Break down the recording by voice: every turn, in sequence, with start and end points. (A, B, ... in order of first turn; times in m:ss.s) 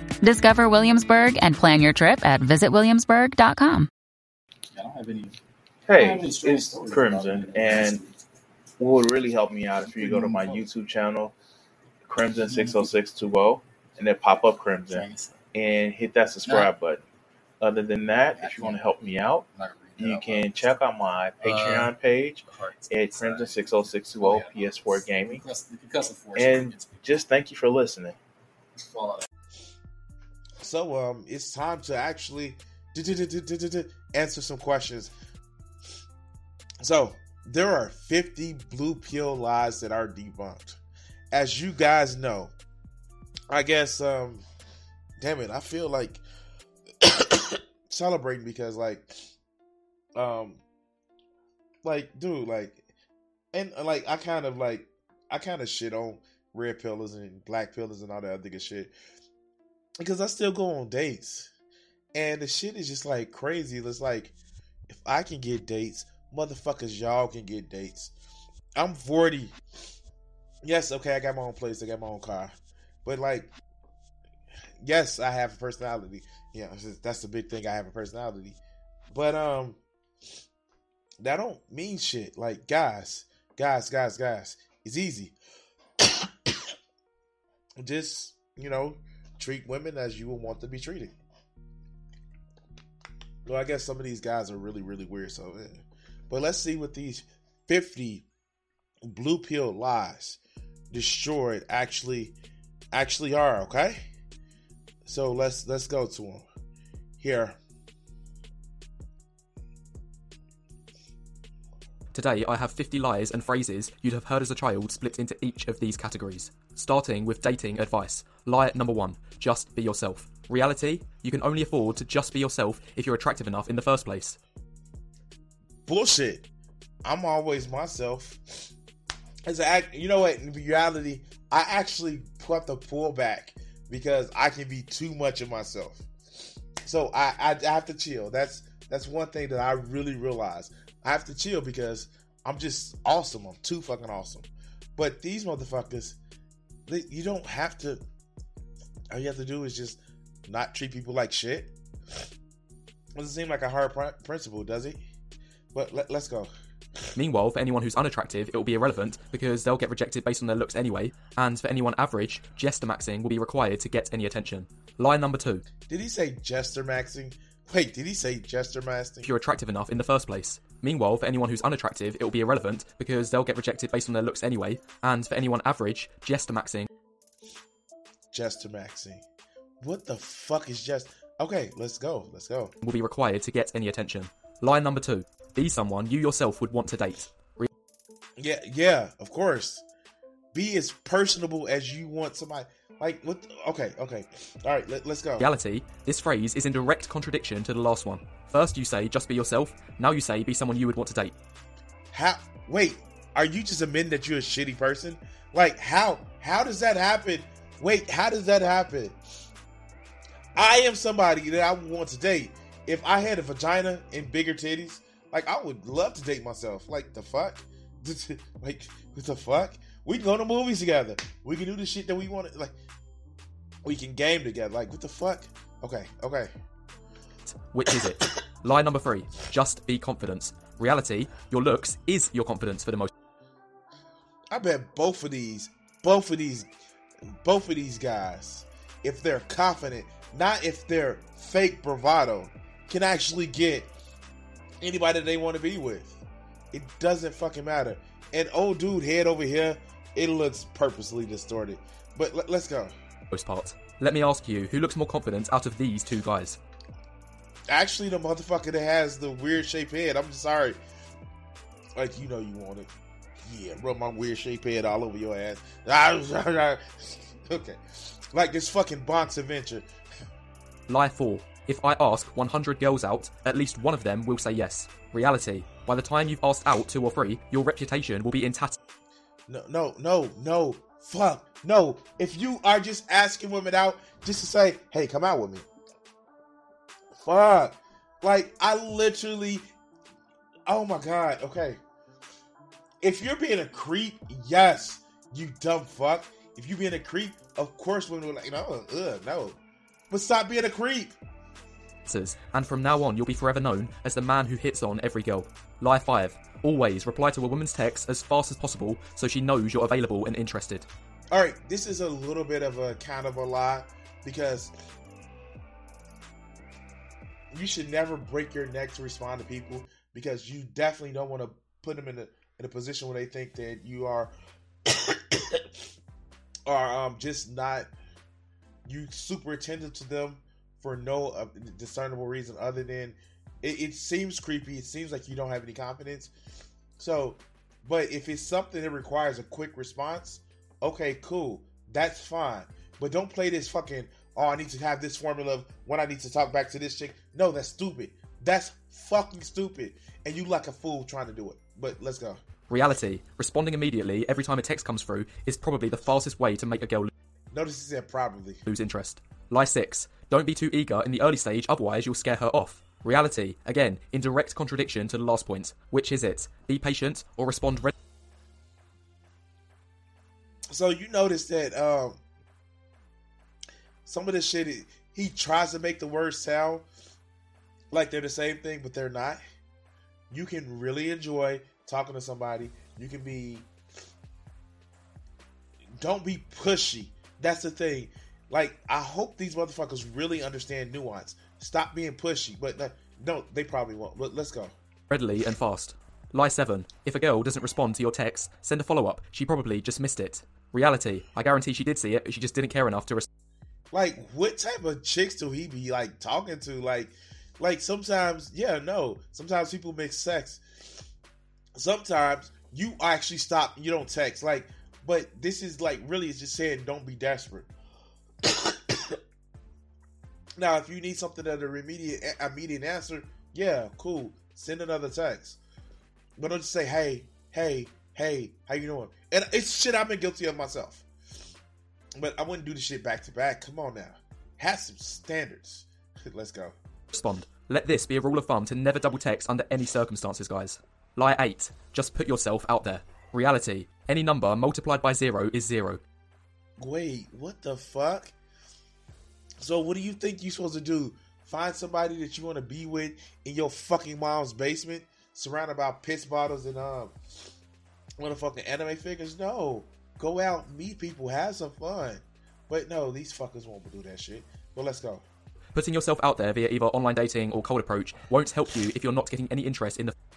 0:00.2-0:03.9 A
0:04.7-0:05.4 B
0:05.9-0:08.0 C
0:05.9-0:08.1 B
0:08.8-0:11.3 C
0:09.9-0:10.7 B
0:12.1-0:17.0 C
0:12.5-0:12.9 B
0:14.9-0:15.4 B
0:16.4-0:16.7 B
0:17.6-0:19.5 C
0:18.4-0:18.9 B
0:19.5-0:20.8 B
0:20.0-0:25.4 C
0:21.4-0:21.9 B
0:22.5-0:27.2 B
0:26.4-0:28.2 C
0:28.8-0:29.2 B
0:30.6-0:35.1 D
0:36.8-0:40.8 D
0:41.3-0:42.5 D
0:43.5-0:44.4 D
0:45.2-0:46.2 D
0:47.0-0:49.3 D
0:50.2-0:50.6 D
0:51.8-0:52.8 D
0:53.5-0:58.9 D
1:00.0-1:01.5 D
1:02.1-1:04.3 D
1:04.9-1:08.1 D
1:08.8-1:09.5 D
1:10.6-1:13.5 D
1:14.8-1:18.6 D
1:19.1-1:19.8 D
1:21.2-1:25.3 D
1:26.0-1:26.7 D
1:27.8-1:31.1 D
1:33.4-1:38.3 D
1:39.0-1:40.4 D
1:40.9-1:42.4 D
1:42.9-1:44.1 D
1:45.0-1:46.5 D
1:47.2-1:47.6 D
1:52.1-2:04.4 E
2:05.9-2:06.5 D
2:07.0-2:08.7 D
2:09.5-2:16.1 D
2:16.8-2:26.2 D
2:26.9-2:28.0 D
2:29.1-2:31.8 D
2:33.2-2:35.0 D
2:35.7-2:36.5 D
2:37.2-2:45.6 E
2:45.9-2:49.3 D
2:49.2-2:56.9 E
2:58.3-2:59.2 D
2:59.8-3:02.7 D
3:02.8-3:07.7 E
3:08.4-3:09.8 D
3:10.5-3:15.5 D
3:15.4-3:21.4 E
3:22.1-3:29.2 D
3:30.6-3:42.8 D
3:43.8-3:46.5 D
3:47.5-3:53.1 E
3:54.5-3:56.7 D
3:57.2-4:03.9 D
4:04.8-4:13.0 D
4:13.3-4:16.6 E
4:17.7-4:20.8 D
4:22.0-4:22.9 D
4:23.4-4:29.9 D
4:30.9-4:38.8 E
4:39.5-4:45.7 D
4:47.2-4:49.6 D
4:50.7-4:51.8 D
4:53.0-4:59.6 D
5:00.1-5:01.2 D
5:02.1-5:10.9 E
5:11.3-5:14.7 D
5:17.5-5:24.3 D
5:24.8-5:25.8 D
5:26.7-5:27.9 D
5:28.9-5:36.3 D
5:37.0-5:52.4 D
5:52.7-5:57.1 E
5:57.5-5:58.6 D
5:58.7-6:07.9 E
6:10.7-6:12.2 D
6:14.1-6:16.9 D
6:17.9-6:19.4 D
6:20.3-6:23.7 D
6:26.0-6:34.7 D
6:35.1-6:43.3 E
6:43.9-6:50.6 D
6:51.8-6:57.7 D
6:58.4-6:59.2 D
7:00.6-7:05.6 D
7:06.4-7:11.1 D
7:12.2-7:16.8 D
7:17.1-7:26.0 E
7:26.8-7:28.3 D
7:29.6-7:37.2 D
7:38.2-7:45.2 D
7:45.8-7:50.2 E